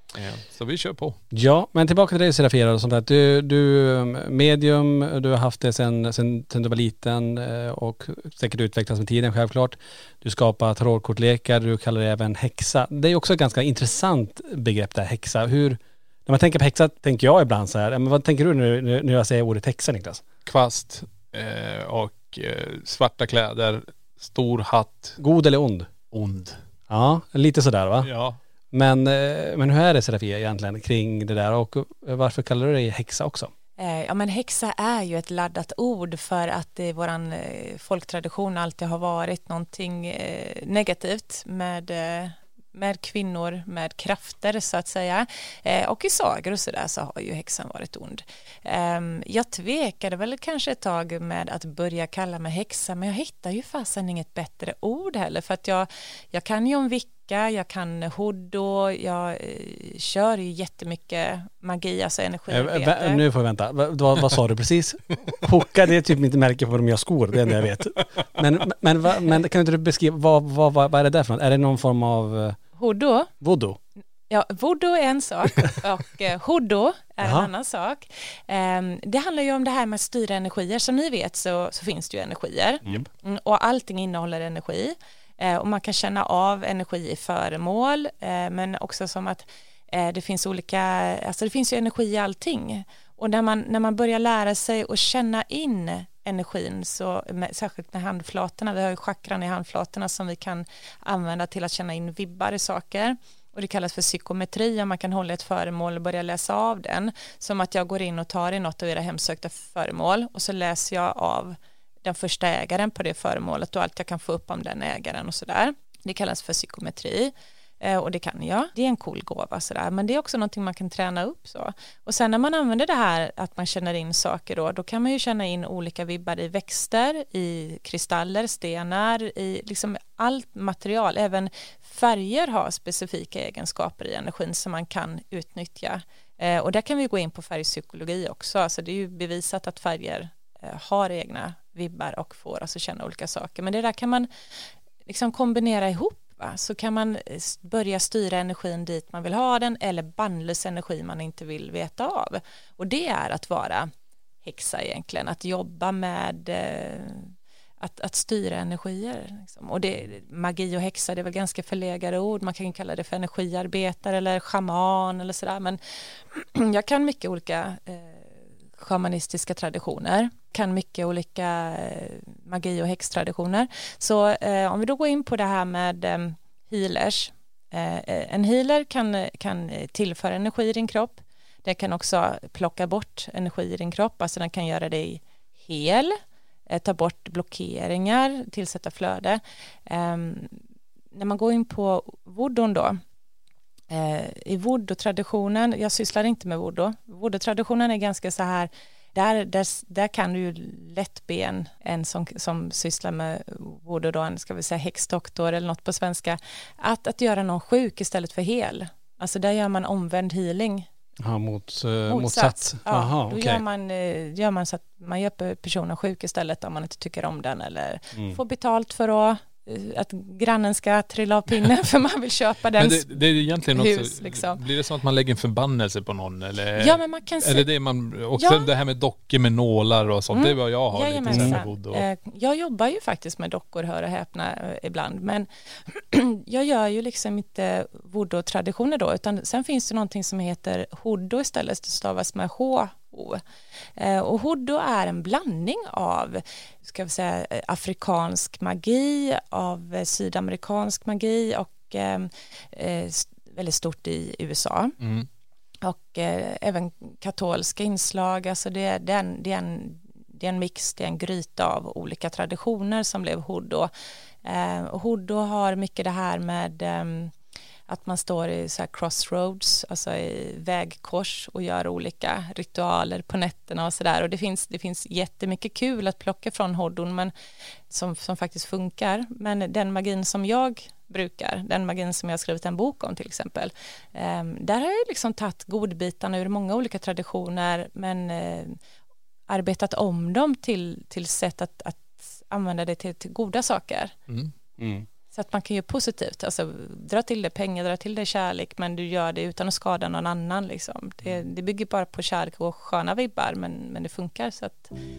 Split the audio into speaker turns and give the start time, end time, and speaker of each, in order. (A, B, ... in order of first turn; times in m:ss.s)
0:00.1-0:01.2 A
0:01.3-0:20.2 B
0:20.4-0:25.2 A
0:25.2-0:25.9 B
0:26.1-0:26.6 A
0:26.9-0:28.1 B
0:28.0-0:28.4 A
0:28.7-0:33.5 B
0:33.8-1:03.2 C
1:02.5-1:12.6 B
1:12.8-1:13.3 C
1:13.4-1:13.8 B
1:14.3-2:24.3 C
1:17.2-1:17.5 B
2:25.0-2:33.9 C
2:34.4-3:06.1 C
3:06.7-3:10.6 C
3:11.1-3:13.0 C
3:13.9-3:30.8 C
3:31.2-3:33.6 B
3:32.1-3:44.6 C
3:38.1-3:38.4 B
3:42.8-3:52.0 A
3:46.8-3:47.7 C
3:48.4-3:48.7 C
3:50.3-4:03.4 C
3:51.3-3:51.6 B
4:04.0-4:15.0 C
4:15.0-4:15.3 A
4:15.8-4:23.9 C
4:24.4-4:27.3 C
4:27.9-4:37.3 C
4:37.9-4:48.8 C
4:49.5-4:54.1 C
4:54.8-4:55.0 B
4:55.3-5:04.9 C